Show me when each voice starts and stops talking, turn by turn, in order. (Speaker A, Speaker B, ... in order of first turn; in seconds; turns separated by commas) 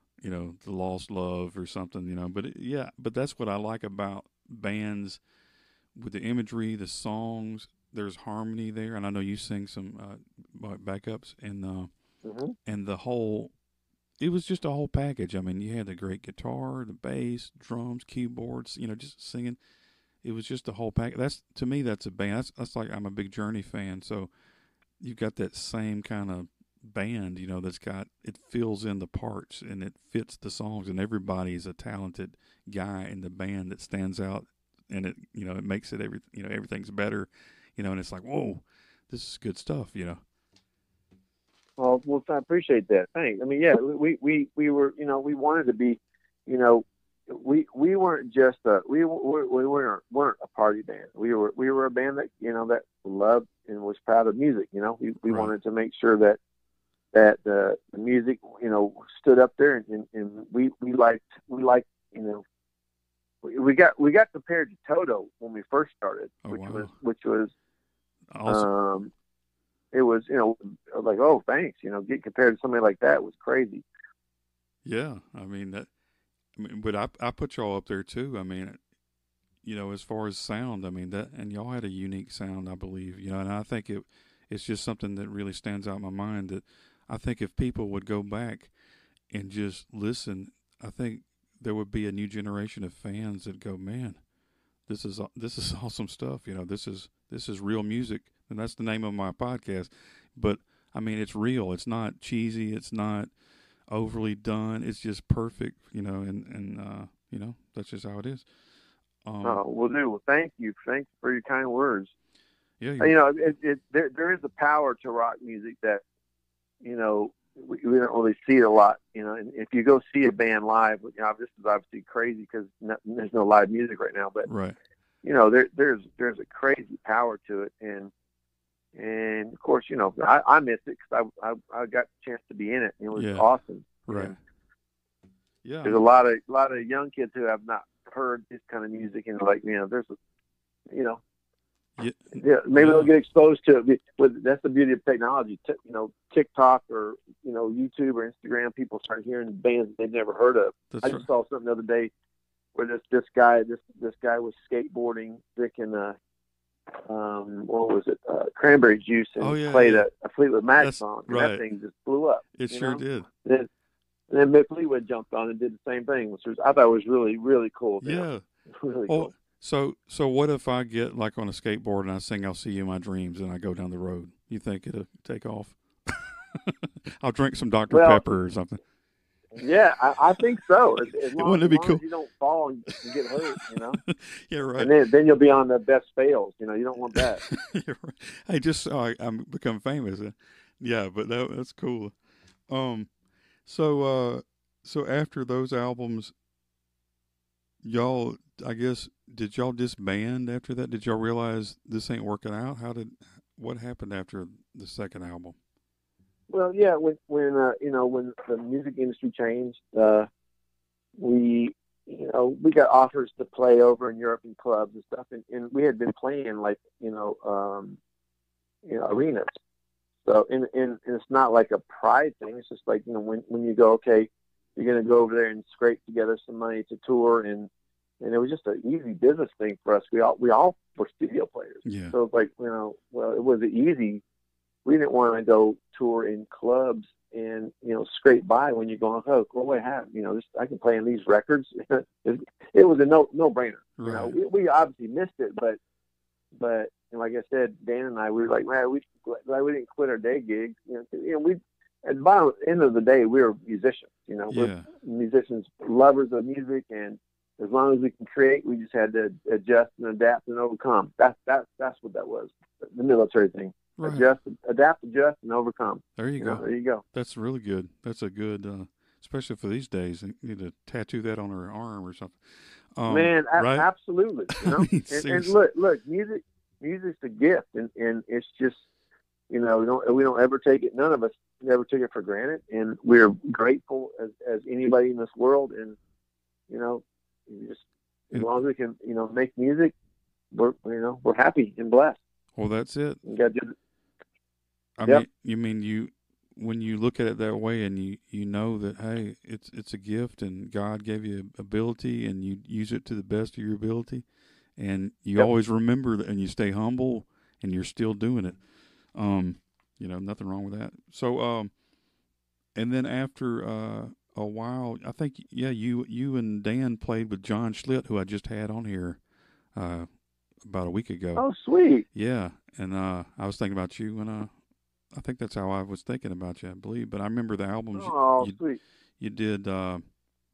Speaker A: 0.2-5.2, Speaker A: 6.0-11.9, Speaker B: 12.2-12.5, Speaker A: 12.6-13.5, Speaker A: 14.2-19.6, Speaker A: 20.2-24.3, Speaker A: 25.0-40.2, Speaker B: 41.8-56.4, Speaker A: 55.2-55.5, Speaker B: 57.1-62.4, Speaker B: 63.4-67.5, Speaker A: 66.4-66.9, Speaker A: 68.3-68.7, Speaker B: 68.5-69.1, Speaker B: 69.9-73.8, Speaker A: 74.8-75.9, Speaker A: 76.5-78.8, Speaker A: 79.6-88.7, Speaker A: 89.3-94.2, Speaker A: 94.9-103.3, Speaker A: 103.9-108.5, Speaker A: 109.2-109.6, Speaker B: 109.4-112.1, Speaker A: 112.8-113.2, Speaker B: 113.0-116.0, Speaker B: 116.8-124.5, Speaker A: 124.4-124.8, Speaker B: 125.2-128.1, Speaker B: 128.9-134.3, Speaker A: 133.1-133.4, Speaker A: 134.1-134.3, Speaker A: 135.6-136.0, Speaker B: 135.8-140.2, Speaker B: 140.9-141.2, Speaker A: 142.0-143.1, Speaker B: 142.3-152.1, Speaker A: 150.9-151.3, Speaker B: 152.7-156.2, Speaker B: 157.0-163.7, Speaker A: 159.4-160.1, Speaker A: 160.8-161.6, Speaker A: 162.5-163.3, Speaker B: 164.3-168.2, Speaker A: 168.0-168.4, Speaker B: 168.8-169.3, Speaker A: 169.1-178.8, Speaker B: 177.9-178.2, Speaker B: 179.5-184.0, Speaker A: 181.3-182.0, Speaker A: 183.7-184.9, Speaker B: 184.8-187.4, Speaker A: 187.1-192.1, Speaker A: 192.7-193.1, Speaker A: 193.6-196.3, Speaker A: 197.8-205.6, Speaker B: 206.5-210.3, Speaker B: 211.2-218.0, Speaker B: 218.8-219.5, Speaker B: 220.2-227.7, Speaker B: 228.2-234.2, Speaker A: 231.8-232.2, Speaker B: 234.8-245.8, Speaker A: 244.0-244.3, Speaker B: 246.6-267.0, Speaker A: 254.5-254.9, Speaker A: 264.0-264.3, Speaker A: 266.1-273.9, Speaker B: 273.1-278.8, Speaker A: 274.5-275.5, Speaker B: 279.5-286.0, Speaker B: 286.7-289.9, Speaker B: 290.5-292.2, Speaker A: 292.6-293.2, Speaker B: 293.2-293.7, Speaker A: 295.0-304.2, Speaker A: 304.8-308.6, Speaker A: 309.1-311.7, Speaker A: 312.7-319.2, Speaker A: 319.7-320.1, Speaker A: 320.6-321.4, Speaker B: 321.4-322.0, Speaker A: 322.1-324.5, Speaker A: 325.1-328.6, Speaker B: 327.9-328.8, Speaker A: 329.2-330.0